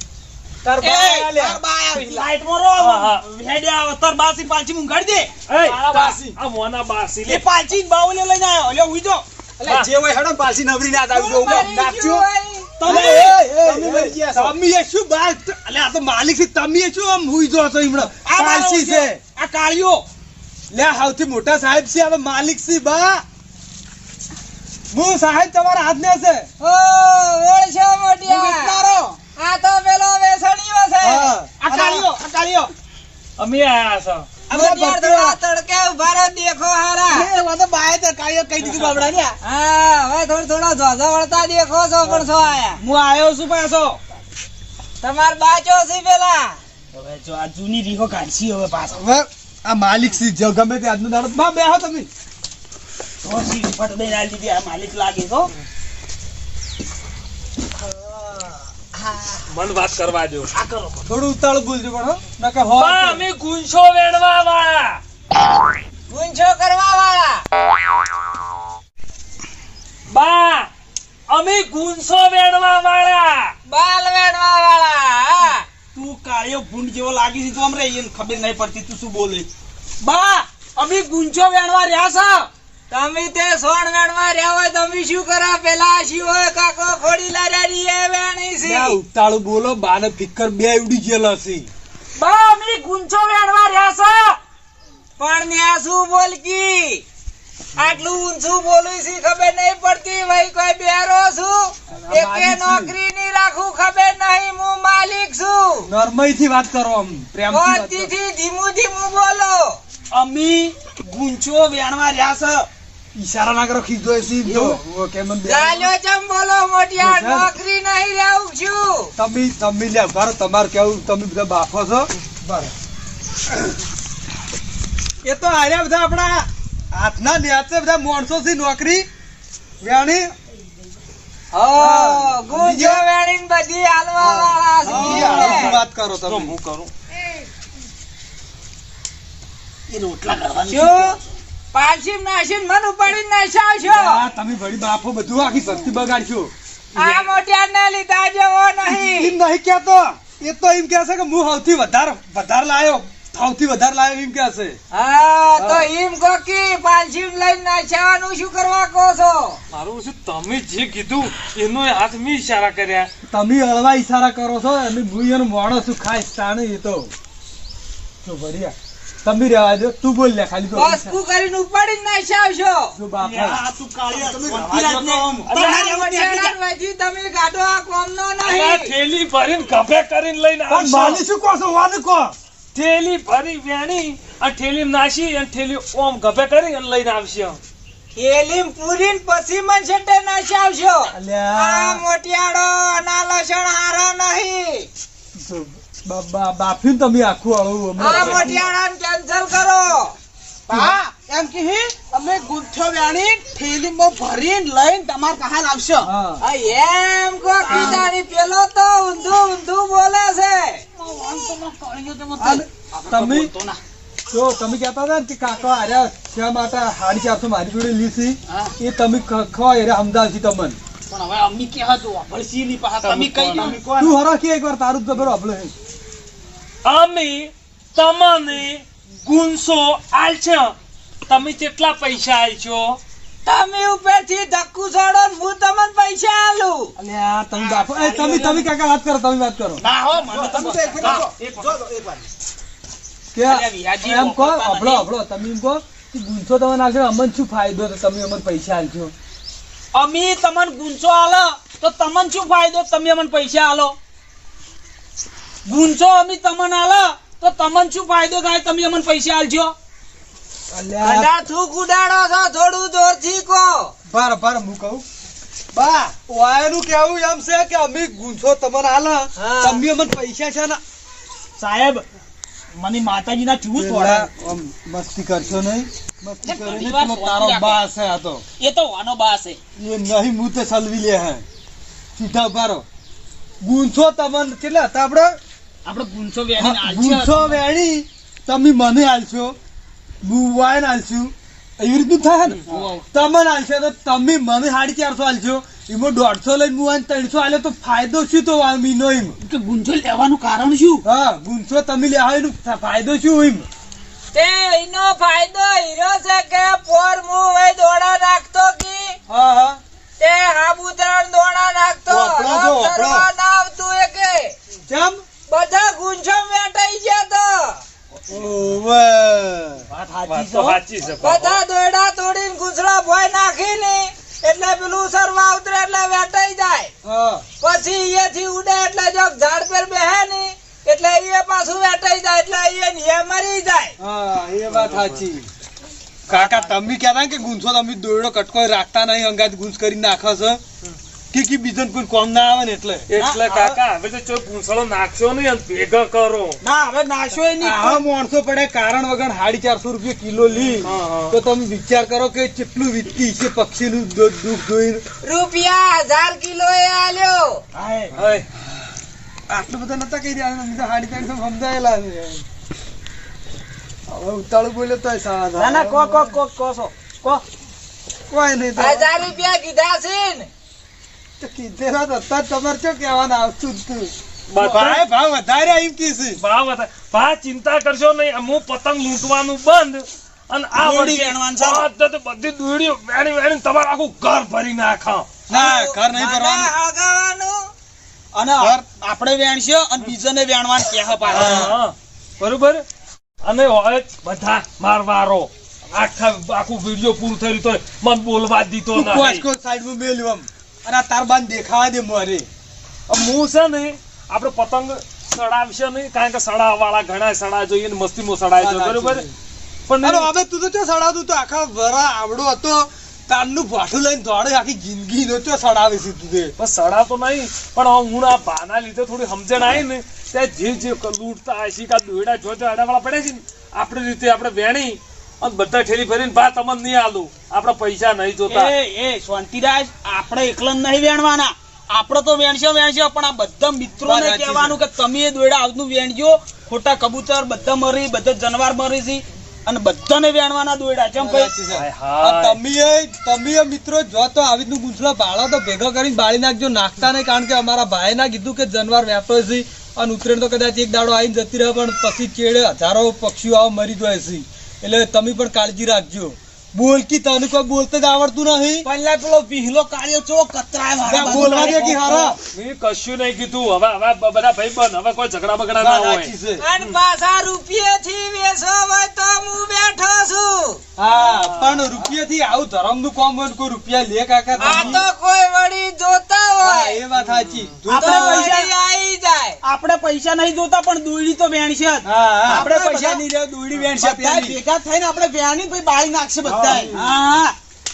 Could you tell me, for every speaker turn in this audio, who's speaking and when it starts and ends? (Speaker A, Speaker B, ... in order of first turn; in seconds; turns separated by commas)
Speaker A: 0.6-1.6, Speaker B: 0.8-5.3, Speaker C: 2.8-3.2, Speaker C: 5.5-7.5, Speaker A: 5.6-6.3, Speaker B: 7.3-9.8, Speaker C: 9.6-9.9, Speaker A: 9.7-12.2, Speaker D: 11.1-12.8, Speaker B: 11.2-12.2, Speaker B: 12.8-14.6, Speaker A: 12.8-19.2, Speaker B: 18.3-20.1, Speaker A: 20.7-23.2, Speaker A: 24.9-26.5, Speaker D: 26.6-28.8, Speaker B: 28.2-29.2, Speaker D: 29.4-31.3, Speaker A: 31.0-32.1, Speaker B: 31.6-32.7, Speaker C: 33.4-34.3, Speaker A: 34.5-35.4, Speaker D: 34.5-37.3, Speaker B: 37.1-39.4, Speaker A: 38.6-39.1, Speaker D: 39.4-42.8, Speaker B: 42.8-44.0, Speaker D: 45.0-46.6, Speaker B: 46.9-49.0, Speaker A: 48.9-52.1, Speaker B: 53.2-55.5, Speaker D: 57.9-59.4, Speaker C: 59.5-60.6, Speaker B: 60.5-61.1, Speaker A: 61.1-63.2, Speaker C: 62.8-65.0, Speaker D: 66.1-67.4, Speaker C: 70.1-70.7, Speaker C: 71.3-73.5, Speaker D: 73.7-75.7, Speaker B: 75.9-79.5, Speaker B: 80.0-82.5, Speaker D: 82.9-89.0, Speaker A: 88.6-91.7, Speaker D: 92.2-94.4, Speaker D: 95.2-97.0, Speaker D: 97.8-105.9, Speaker A: 101.9-102.9, Speaker A: 105.8-108.1, Speaker D: 107.5-109.8, Speaker B: 110.1-112.7, Speaker A: 113.2-115.9, Speaker B: 114.4-114.8, Speaker D: 115.5-119.1, Speaker A: 117.0-117.5, Speaker A: 119.2-122.7, Speaker A: 125.2-129.1, Speaker A: 129.8-130.3, Speaker D: 131.5-135.7, Speaker A: 131.7-133.0, Speaker A: 134.2-136.6, Speaker B: 134.9-135.3, Speaker C: 134.9-136.9, Speaker B: 139.9-141.2, Speaker D: 140.7-141.2, Speaker D: 141.7-144.2, Speaker A: 143.9-146.5, Speaker C: 146.9-147.3, Speaker D: 147.0-149.4, Speaker A: 148.9-154.8, Speaker D: 154.9-159.6, Speaker A: 155.6-155.9, Speaker C: 159.7-163.1, Speaker A: 163.3-167.1, Speaker A: 168.2-171.2, Speaker D: 170.7-172.9, Speaker A: 172.9-173.6, Speaker B: 173.2-176.6, Speaker A: 174.4-175.3, Speaker D: 175.5-178.9, Speaker C: 178.4-181.2, Speaker A: 180.7-182.3, Speaker C: 182.7-187.6, Speaker D: 188.1-194.9, Speaker A: 191.1-192.0, Speaker A: 195.3-198.7, Speaker D: 198.0-200.2, Speaker B: 200.7-206.1, Speaker A: 200.7-201.0, Speaker A: 206.0-206.4, Speaker D: 206.4-210.8, Speaker B: 207.6-208.1, Speaker A: 207.7-208.1, Speaker B: 211.0-213.8, Speaker A: 212.4-213.5, Speaker A: 214.3-220.8, Speaker B: 221.1-224.1, Speaker C: 223.0-223.8, Speaker A: 223.5-225.7, Speaker C: 226.8-230.8, Speaker C: 231.3-233.0, Speaker D: 233.4-236.9, Speaker A: 237.0-239.8, Speaker B: 237.6-238.7, Speaker B: 239.8-242.3, Speaker A: 240.3-241.3, Speaker A: 243.3-249.1, Speaker B: 243.4-245.1, Speaker B: 249.9-254.0, Speaker B: 255.7-259.8, Speaker A: 260.7-261.3, Speaker D: 261.0-263.9, Speaker A: 264.1-265.0, Speaker A: 265.7-270.8, Speaker D: 269.4-269.8, Speaker B: 271.6-272.1, Speaker B: 272.7-274.3, Speaker A: 273.8-278.4, Speaker B: 276.4-277.8, Speaker B: 278.6-279.6, Speaker A: 279.8-281.4, Speaker A: 282.1-282.8, Speaker A: 283.6-285.4, Speaker B: 285.9-287.6, Speaker A: 286.6-289.6, Speaker A: 290.2-299.4, Speaker B: 292.7-293.0, Speaker B: 299.4-301.1, Speaker A: 301.0-303.7, Speaker D: 304.3-309.2, Speaker A: 309.3-309.8, Speaker D: 310.2-314.6, Speaker A: 312.1-313.3, Speaker A: 314.9-315.2, Speaker D: 315.5-317.8, Speaker A: 318.3-319.9, Speaker B: 319.9-320.8, Speaker C: 320.3-321.6, Speaker D: 321.2-326.9, Speaker A: 327.0-327.4, Speaker D: 327.6-333.9, Speaker A: 334.0-335.5, Speaker C: 334.7-335.3, Speaker C: 336.3-336.7, Speaker A: 336.3-340.6, Speaker A: 341.3-343.1, Speaker C: 343.1-346.6, Speaker B: 343.2-343.8, Speaker B: 346.6-348.0, Speaker A: 347.6-355.0, Speaker C: 350.8-351.4, Speaker D: 355.2-357.6, Speaker B: 357.8-358.2, Speaker C: 358.1-358.4, Speaker A: 359.5-362.4, Speaker A: 364.1-366.4, Speaker B: 365.6-367.4, Speaker A: 368.3-369.2, Speaker D: 368.8-370.5, Speaker A: 371.4-376.4, Speaker C: 374.5-375.1, Speaker C: 376.4-385.3, Speaker B: 380.8-381.9, Speaker A: 385.5-386.7, Speaker D: 385.5-387.7, Speaker B: 388.3-391.7, Speaker C: 391.2-392.8, Speaker A: 391.3-391.8, Speaker C: 393.4-399.4, Speaker A: 398.9-402.5, Speaker C: 403.1-409.3, Speaker A: 408.6-409.3, Speaker C: 409.9-410.3, Speaker A: 410.0-416.5, Speaker C: 416.6-428.8, Speaker B: 428.5-441.5, Speaker A: 434.0-434.8, Speaker A: 441.2-458.9, Speaker C: 441.7-442.6, Speaker B: 458.8-462.4, Speaker A: 461.0-462.4, Speaker C: 461.2-467.0, Speaker A: 465.8-466.6, Speaker D: 466.6-470.8, Speaker A: 471.0-475.1, Speaker C: 471.1-472.1, Speaker D: 474.6-477.0, Speaker A: 476.6-478.6, Speaker C: 477.2-477.7, Speaker B: 477.9-478.7, Speaker D: 478.0-479.6, Speaker B: 479.6-487.6, Speaker A: 482.0-483.2, Speaker A: 484.0-484.6, Speaker A: 486.4-487.2